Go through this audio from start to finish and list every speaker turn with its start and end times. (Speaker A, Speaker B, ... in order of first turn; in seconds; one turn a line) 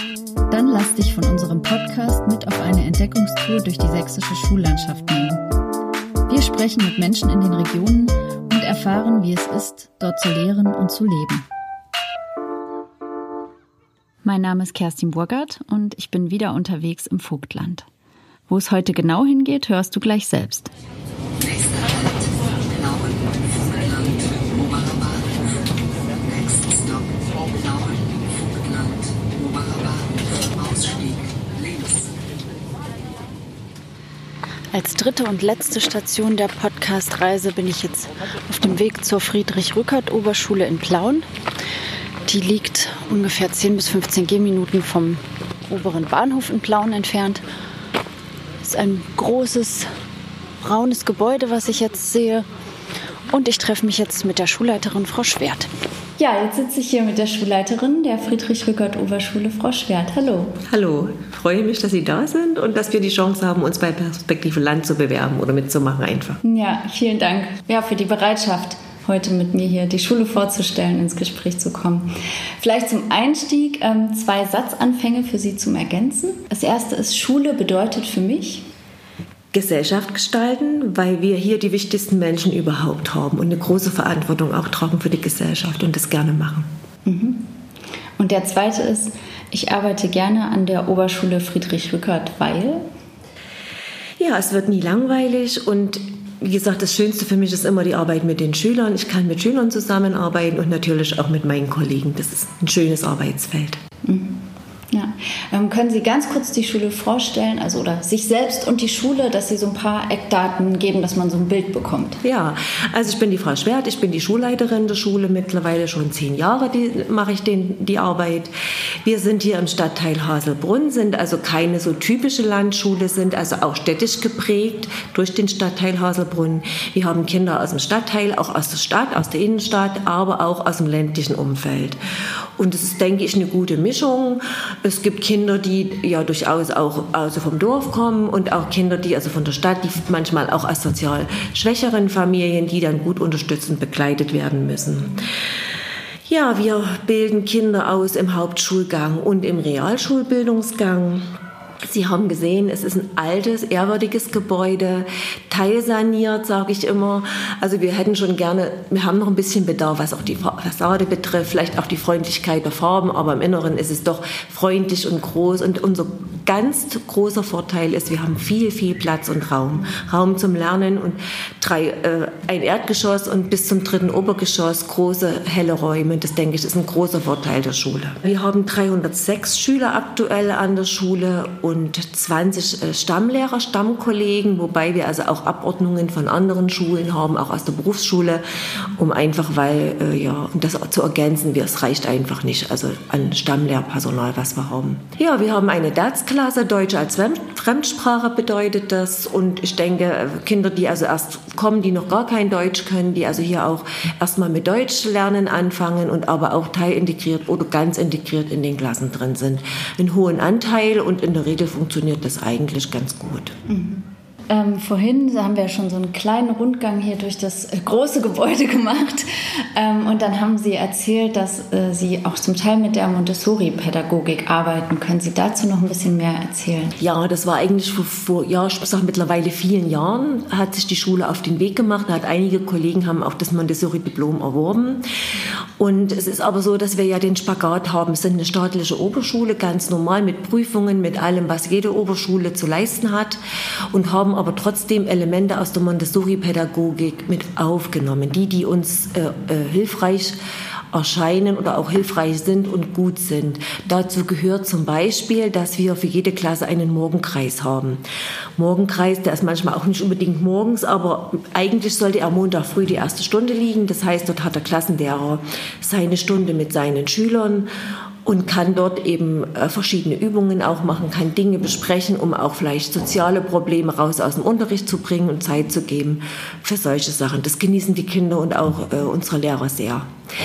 Speaker A: 0.5-5.4
Speaker A: 6.3-11.5
Speaker A: 14.2-17.9
Speaker A: 18.5-20.7
Speaker B: 21.5-25.3
Speaker B: 26.2-32.1
Speaker A: 34.7-41.2
Speaker A: 42.2-47.4
Speaker A: 48.6-49.9
Speaker A: 50.6-52.5
Speaker A: 53.3-60.6
Speaker B: 60.6-66.4
Speaker A: 66.4-78.7
Speaker B: 79.5-86.7
Speaker A: 87.0-87.5
Speaker A: 88.2-92.8
Speaker B: 94.2-103.8
Speaker A: 104.0-112.2
Speaker B: 112.2-118.5
Speaker B: 119.0-145.3
Speaker B: 146.3-151.2
Speaker B: 151.8-213.5
Speaker A: 213.7-226.9
Speaker B: 227.0-235.0
Speaker B: 235.8-250.3
Speaker B: 250.9-258.0
Speaker B: 258.6-267.7
Speaker B: 268.2-280.1